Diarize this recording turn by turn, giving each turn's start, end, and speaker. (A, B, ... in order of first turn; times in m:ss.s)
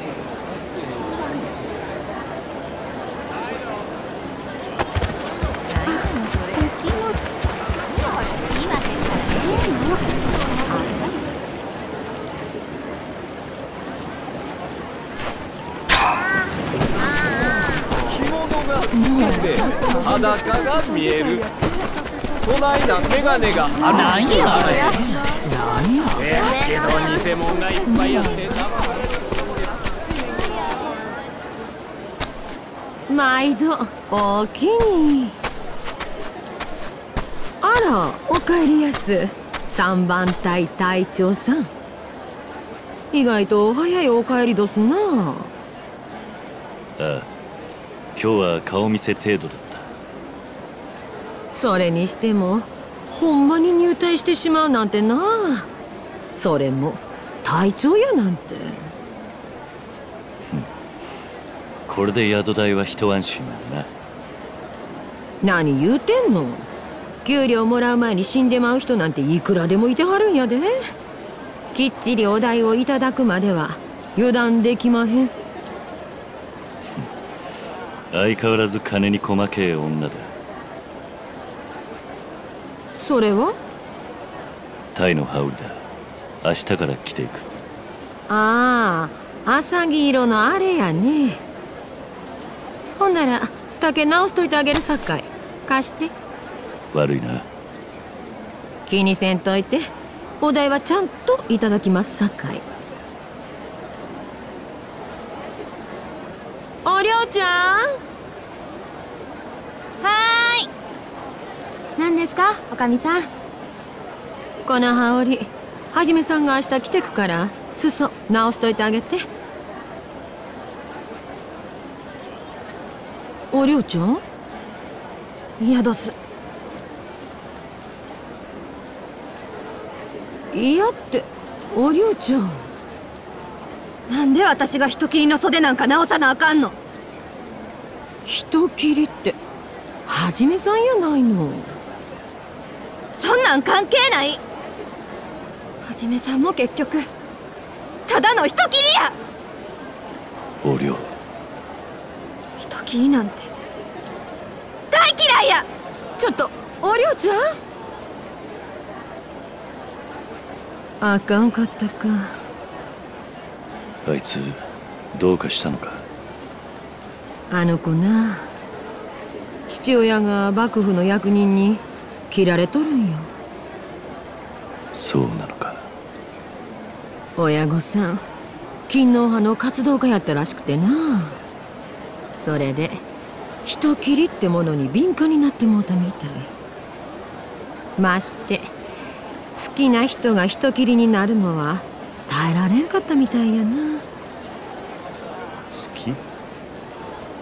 0:00.2-0:01.6 A
0:05.9-0:07.2 A
0:08.1-0:09.9 A
0:10.7-0:11.2 A
0:18.2-0:21.5 A
0:22.5-0:28.6 A
0:33.1-0:35.4 B
0:37.6-0:41.7 B
0:43.1-0:45.5 B
0:47.0-0:47.3 C
0:48.2-0:49.9 C
0:51.5-0:55.7 B
0:56.3-0:58.9 B
1:01.9-1:03.9 C
1:05.4-1:06.7 B
1:07.2-1:10.9 B
1:11.7-1:15.4 B
1:18.1-1:20.3 C
1:23.0-1:23.6 B
1:24.9-1:25.9 C
1:26.4-1:27.5 C
1:28.3-1:31.4 B
1:33.0-1:36.1 B
1:36.9-1:37.5 C
1:38.9-1:42.6 B
1:46.8-1:48.0 B
1:50.0-1:50.7 D
1:52.0-1:53.3 D
1:54.6-1:59.3 B
2:03.5-2:04.2 B
2:05.6-2:06.2 D
2:10.5-2:12.7 B
2:14.1-2:16.8 D
2:18.2-2:19.4 B
2:20.1-2:21.8 B
2:23.2-2:24.4 D
2:25.8-2:27.1 D
2:28.1-2:29.2 D
2:30.6-2:31.1 C
2:32.6-2:33.5 D
2:34.9-2:35.7 D
2:36.2-2:37.6 B
2:41.0-2:42.4 B
2:44.0-2:46.1 C
2:47.5-2:48.5 B
2:49.7-2:53.3 B
2:54.9-2:55.9 C
2:57.4-2:58.2 B
2:58.9-3:01.4 B
3:02.4-3:03.0 B
3:03.6-3:06.5 B
3:08.0-3:08.7 B
3:09.5-3:14.1 B
3:15.7-3:16.2 C